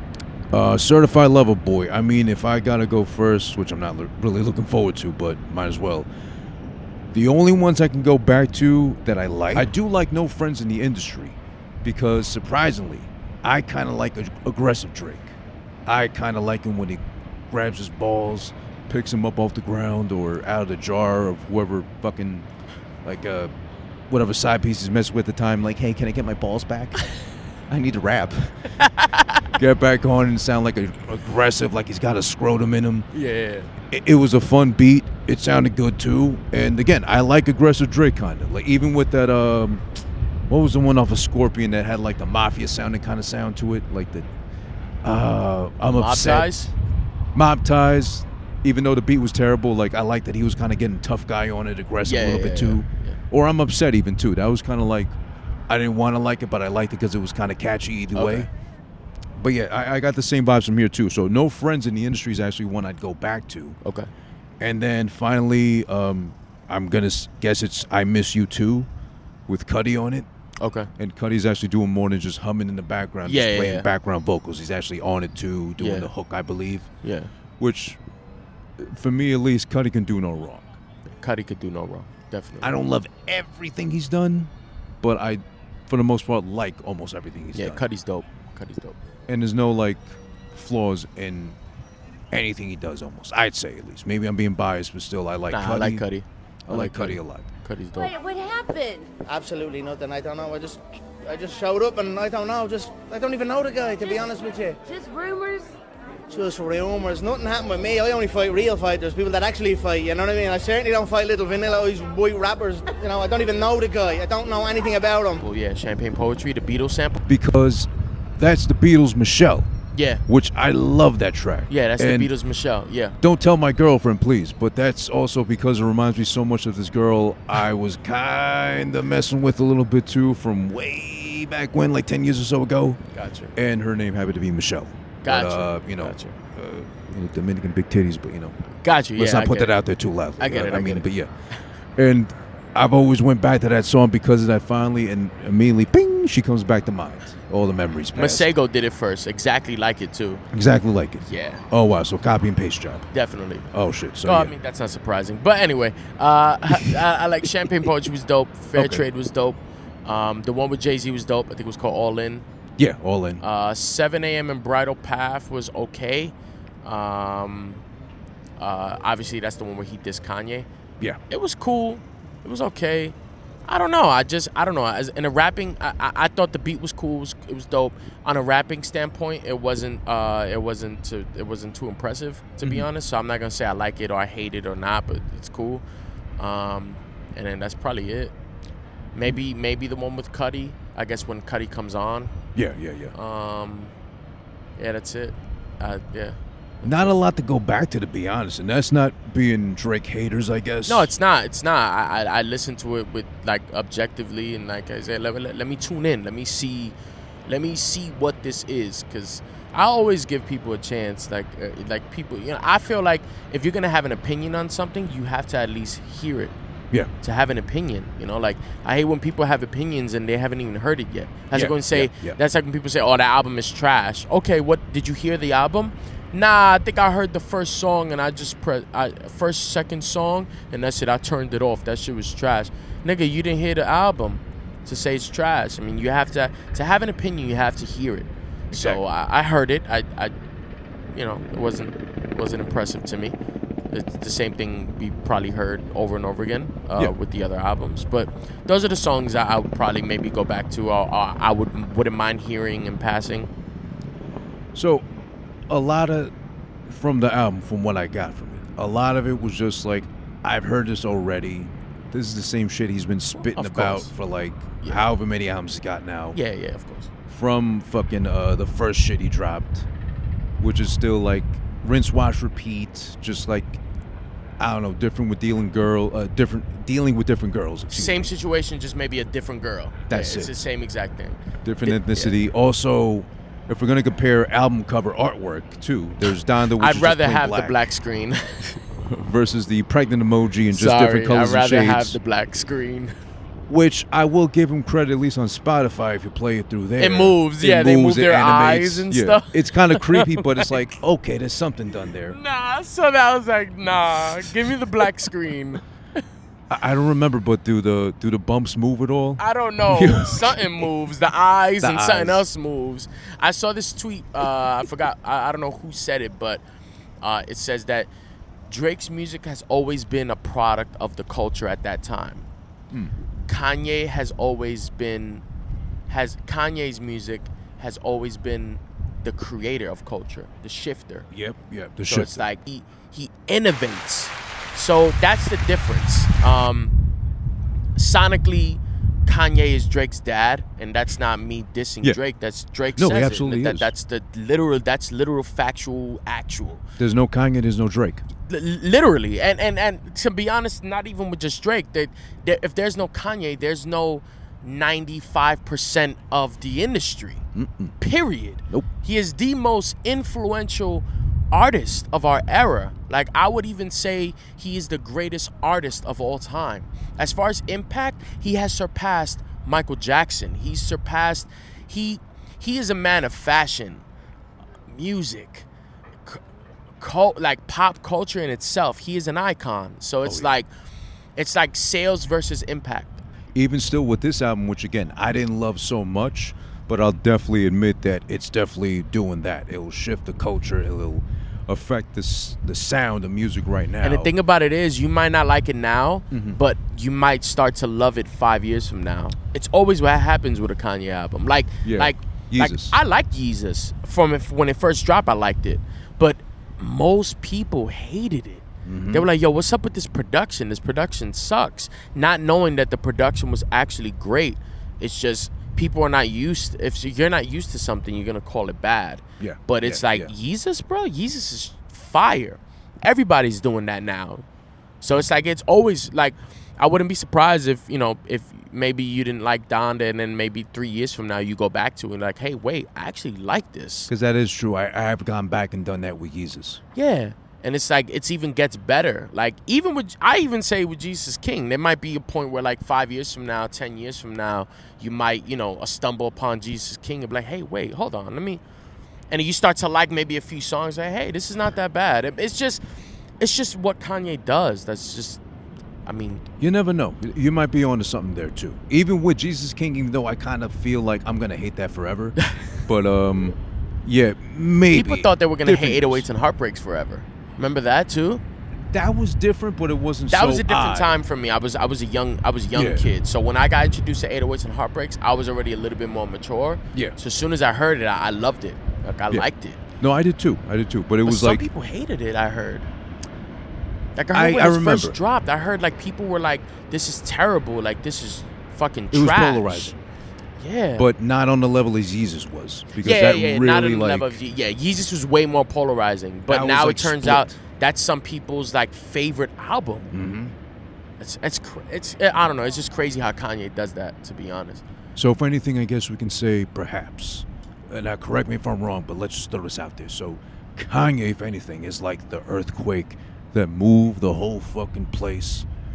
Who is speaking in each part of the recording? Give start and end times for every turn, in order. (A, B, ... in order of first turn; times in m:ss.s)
0:00.5-0:06.1 A
0:07.1-0:22.5 A
0:23.0-0:23.5 A
0:24.1-0:27.0 A
0:27.7-0:28.6 A
0:28.8-0:29.4 B
0:29.6-0:33.1 A
0:33.1-0:33.7 B
0:33.9-0:39.8 A
0:40.5-0:44.3 A
0:45.0-0:46.7 A
0:45.9-0:46.7 B
0:47.3-0:55.1 A
0:52.0-0:53.2 B
0:55.7-0:58.5 A
0:58.1-0:58.5 B
0:59.4-1:03.8 A
1:03.8-1:04.1 B
1:04.6-1:08.9 A
1:09.5-1:10.3 A
1:10.6-1:10.9 B
1:11.0-1:16.9 A
1:13.2-1:13.9 B
1:15.8-1:16.1 B
1:17.0-1:17.3 B
1:17.6-1:18.0 A
1:18.8-1:20.8 A
1:21.2-1:22.8 B
1:22.6-1:24.5 A
1:25.0-1:27.8 A
1:27.5-1:29.0 B
1:29.3-1:31.6 A
1:32.3-1:36.0 A
1:35.5-1:38.2 B
1:36.7-1:37.4 A
1:38.0-1:39.1 C
1:39.2-1:44.8 D
1:44.9-1:45.7 C
1:46.3-1:55.4 D
1:55.4-1:57.2 B
1:57.2-1:59.7 A
1:59.9-2:00.2 B
2:00.3-2:02.3 A
2:01.7-2:03.2 B
2:03.2-2:13.0 A
2:13.1-2:13.5 B
2:13.6-2:18.6 A
2:15.2-2:16.4 B
2:18.8-2:19.8 B
2:19.2-2:21.3 A
2:20.4-2:21.1 B
2:22.0-2:28.5 A
2:28.1-2:30.4 B
2:30.5-2:33.1 A
2:31.2-2:31.6 B
2:33.1-2:33.7 B
2:33.7-2:34.5 A
2:34.2-2:42.4 B
2:38.7-2:39.0 A
2:42.8-2:43.4 A
2:43.4-2:47.8 B
2:48.6-2:50.7 B
2:51.3-3:05.8 B
3:06.4-3:08.3 B
3:09.1-3:12.3 B
3:12.5-3:13.1 A
3:13.1-3:13.9 B
3:14.8-3:17.1 B
3:16.8-3:21.1 A
3:20.8-3:36.5 B
3:37.2-4:00.3 B
3:41.5-3:42.4 A
3:58.7-3:59.0 A
4:01.1-4:03.4 B
4:03.9-4:13.5 B
4:14.7-4:15.0 A
4:15.7-4:16.3 A
4:16.9-4:26.4 A
4:23.3-4:24.1 B
4:26.3-4:27.1 B
4:27.3-4:29.9 A
4:30.6-4:33.8 A
4:34.6-4:38.3 A
4:37.9-4:42.4 B
4:40.1-4:40.6 A
4:41.6-4:47.8 A
4:46.8-4:48.8 B
4:49.0-4:52.2 A
4:50.7-4:53.1 B
4:53.7-5:02.4 A
4:57.0-5:00.8 B
5:02.3-5:06.2 B
5:06.7-5:10.7 A
5:09.4-5:16.6 B
5:11.8-5:12.4 A
5:17.2-5:18.1 B
5:18.7-5:22.5 B
5:23.4-5:25.4 B
5:26.1-5:31.3 B
5:31.3-5:32.4 A
5:32.0-5:36.9 B
5:38.0-5:46.8 B
5:43.0-5:43.9 A
5:47.0-5:48.2 A
5:48.4-5:57.4 B
5:57.5-5:58.0 A
5:58.0-6:14.0 B
6:14.9-6:15.7 B
6:17.0-6:20.7 B
6:21.4-6:23.2 B
6:23.5-6:34.3 A
6:34.0-7:04.4 B
6:36.3-6:36.6 A
6:41.8-6:43.0 A
6:48.8-6:49.3 A
6:59.4-7:00.3 A
7:05.0-7:14.1 B
7:14.1-7:16.8 A
7:16.9-7:28.6 B
7:29.3-7:32.8 B
7:33.4-7:35.4 B
7:36.0-7:36.4 B
7:36.6-7:46.2 A
7:44.9-7:48.4 B
7:48.9-7:51.1 A
7:50.3-7:59.8 B
7:52.7-7:53.0 A
7:59.3-8:01.6 A
8:01.2-8:02.9 B
8:04.2-8:10.0 B
8:04.3-8:05.2 A
8:09.1-8:10.0 A
8:10.6-8:11.1 B
8:11.0-8:14.4 A
8:13.0-8:20.1 B
8:16.5-8:17.6 A
8:20.1-8:20.5 A
8:21.2-8:24.8 B
8:25.2-8:35.7 A